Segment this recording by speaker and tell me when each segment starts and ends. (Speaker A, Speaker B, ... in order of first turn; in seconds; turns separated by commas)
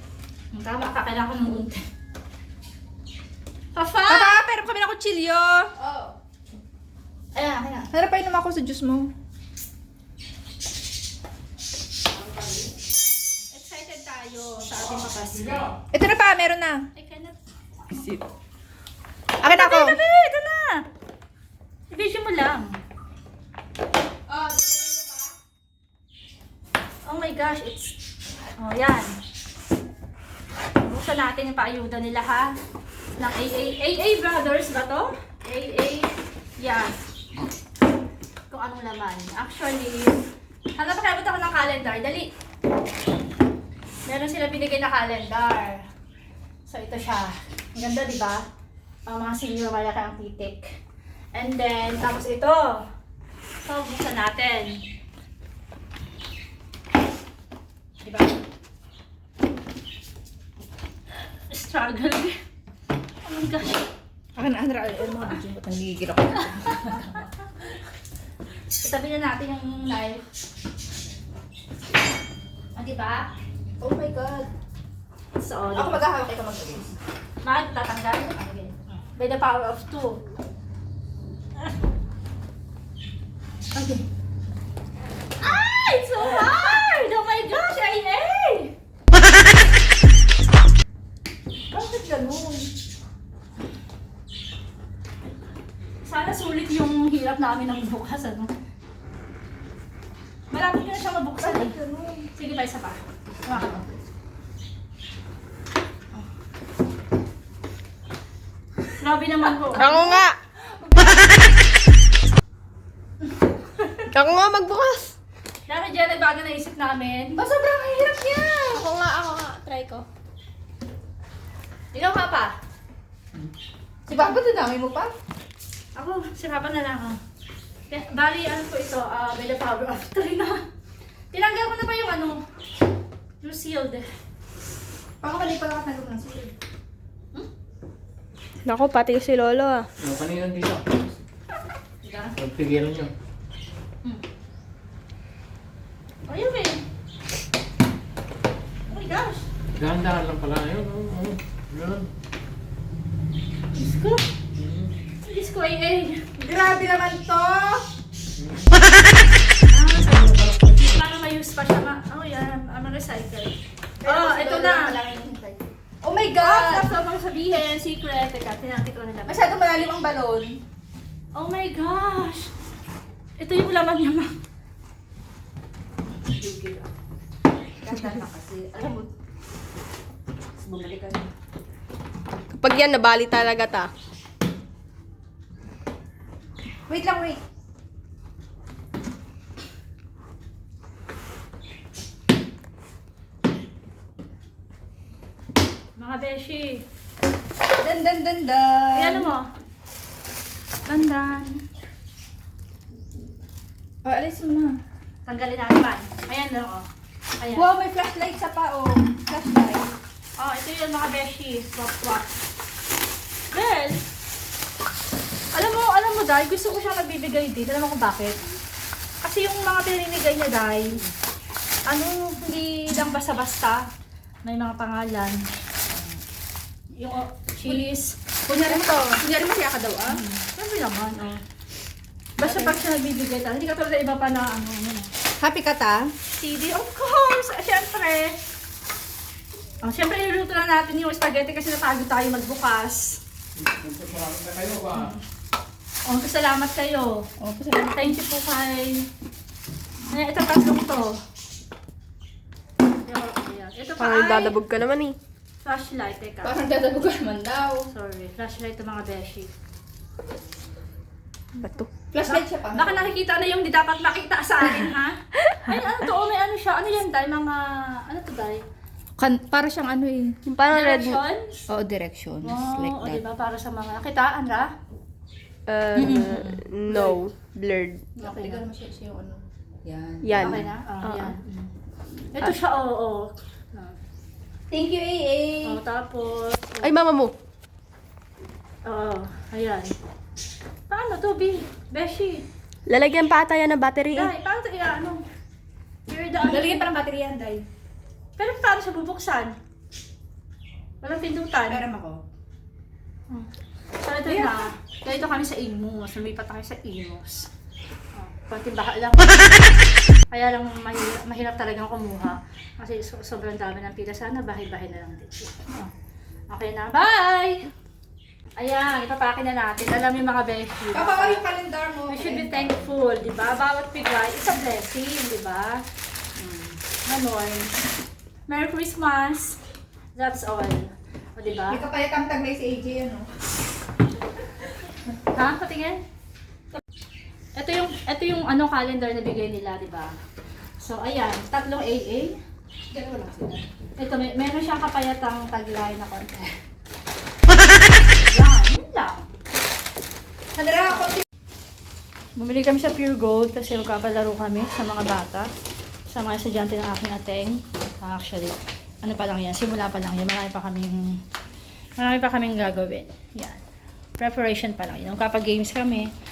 Speaker A: 0.5-1.8, Speaker A: 3.7-4.4, Speaker B: 4.1-6.1, Speaker A: 7.3-7.9, Speaker B: 7.9-9.1, Speaker A: 13.5-15.7, Speaker B: 15.9-16.9, Speaker A: 16.9-17.4, Speaker B: 17.9-18.2, Speaker B: 19.4-20.0, Speaker A: 19.4-20.8, Speaker A: 21.9-22.8, Speaker B: 24.3-25.2, Speaker A: 27.0-27.9, Speaker A: 28.6-29.2, Speaker A: 30.8-32.6, Speaker A: 33.2-37.0, Speaker A: 38.5-40.2, Speaker A: 40.8-42.3, Speaker A: 44.0-45.8, Speaker A: 46.7-48.4, Speaker A: 49.0-50.8, Speaker A: 51.3-52.8, Speaker A: 53.6-54.8, Speaker A: 58.0-58.4, Speaker A: 61.3-62.4, Speaker A: 63.2-63.9, Speaker B: 64.3-67.2, Speaker A: 68.7-70.2, Speaker A: 72.8-73.3, Speaker B: 73.8-74.5, Speaker A: 75.4-76.0, Speaker B: 75.7-77.0, Speaker A: 77.4-80.2, Speaker B: 83.7-84.0, Speaker A: 85.4-88.7, Speaker B: 91.7-92.7, Speaker A: 96.0-98.5, Speaker A: 100.5-101.8, Speaker B: 101.4-102.3, Speaker A: 102.3-103.8, Speaker A: 109.0-110.0, Speaker B: 109.7-111.2, Speaker C: 109.8-110.4, Speaker A: 113.8-114.0, Speaker C: 114.1-115.1, Speaker A: 115.7-117.4, Speaker B: 117.3-118.9, Speaker C: 118.7-120.0, Speaker A: 121.9-122.5, Speaker B: 124.1-125.1, Speaker A: 125.9-127.2, Speaker A: 127.9-130.6, Speaker A: 131.3-132.4, Speaker A: 133.4-134.1, Speaker B: 135.2-136.5, Speaker C: 138.6-139.9, Speaker D: 140.0-141.2, Speaker A: 142.0-142.4, Speaker D: 142.4-143.1, Speaker A: 146.2-146.8, Speaker A: 148.9-149.5, Speaker D: 149.8-152.1, Speaker A: 153.7-154.2, Speaker D: 154.5-154.9, Speaker A: 155.2-156.2, Speaker B: 156.4-157.8, Speaker D: 158.4-158.7, Speaker A: 159.7-160.3, Speaker D: 159.9-161.0, Speaker A: 160.8-165.0, Speaker B: 164.0-166.9, Speaker A: 166.4-169.5, Speaker B: 169.2-170.6, Speaker A: 171.3-172.5, Speaker A: 173.4-174.3, Speaker B: 176.4-176.8, Speaker B: 177.8-179.1, Speaker B: 180.6-181.3, Speaker C: 182.5-183.9, Speaker B: 186.9-187.4, Speaker A: 196.0-196.8, Speaker B: 197.8-199.3, Speaker A: 198.9-199.5, Speaker A: 200.9-201.6, Speaker B: 204.0-204.8, Speaker A: 205.2-206.9, Speaker A: 207.4-207.7, Speaker B: 207.5-209.9, Speaker A: 210.4-212.3, Speaker A: 213.5-214.0, Speaker A: 215.5-218.4, Speaker A: 219.2-221.0, Speaker A: 221.9-223.8, Speaker A: 224.4-225.4, Speaker A: 227.0-228.9, Speaker B: 228.5-230.2, Speaker A: 230.1-231.4, Speaker A: 232.4-235.1, Speaker B: 232.4-232.8, Speaker B: 235.4-236.1, Speaker A: 236.3-238.4, Speaker A: 239.8-243.2, Speaker D: 243.6-245.1, Speaker A: 244.9-245.2, Speaker A: 246.0-247.3, Speaker B: 247.4-248.0, Speaker A: 247.9-249.1, Speaker A: 250.1-251.2, Speaker A: 253.0-254.6, Speaker C: 254.0-255.2, Speaker A: 255.6-256.6, Speaker B: 256.4-257.9, Speaker A: 257.9-259.5, Speaker C: 261.6-261.9, Speaker B: 262.1-263.0, Speaker A: 262.2-268.6, Speaker B: 269.2-270.4, Speaker C: 270.4-271.2, Speaker A: 270.7-271.6, Speaker B: 271.7-273.2, Speaker A: 272.4-274.7, Speaker C: 275.7-278.1, Speaker B: 275.9-277.1, Speaker A: 276.0-276.6, Speaker B: 278.1-280.7, Speaker A: 278.2-278.6, Speaker C: 280.2-281.3, Speaker A: 280.4-281.7, Speaker A: 282.3-284.0, Speaker B: 284.7-285.8, Speaker A: 285.6-286.9, Speaker C: 286.8-287.3, Speaker A: 288.8-289.9, Speaker A: 290.9-292.4, Speaker C: 292.9-294.3, Speaker A: 294.1-295.2, Speaker A: 296.1-296.9, Speaker B: 296.4-297.6, Speaker A: 298.4-299.5, Speaker A: 301.0-301.8, Speaker B: 301.7-302.2, Speaker A: 304.0-307.5, Speaker B: 304.2-304.6, Speaker A: 308.1-309.8, Speaker A: 310.3-315.9, Speaker A: 316.5-317.7, Speaker A: 318.6-321.4, Speaker B: 320.9-322.7, Speaker A: 322.1-325.8, Speaker A: 326.4-327.7, Speaker A: 328.5-329.6, Speaker A: 330.1-331.8, Speaker B: 331.7-333.3, Speaker A: 335.2-336.0, Speaker A: 337.6-340.1, Speaker A: 340.8-342.4, Speaker A: 342.9-346.6, Speaker B: 342.9-343.6, Speaker A: 348.1-349.3, Speaker B: 350.6-351.2, Speaker A: 352.4-355.5, Speaker A: 356.1-361.2, Speaker A: 362.0-363.6, Speaker A: 364.2-366.1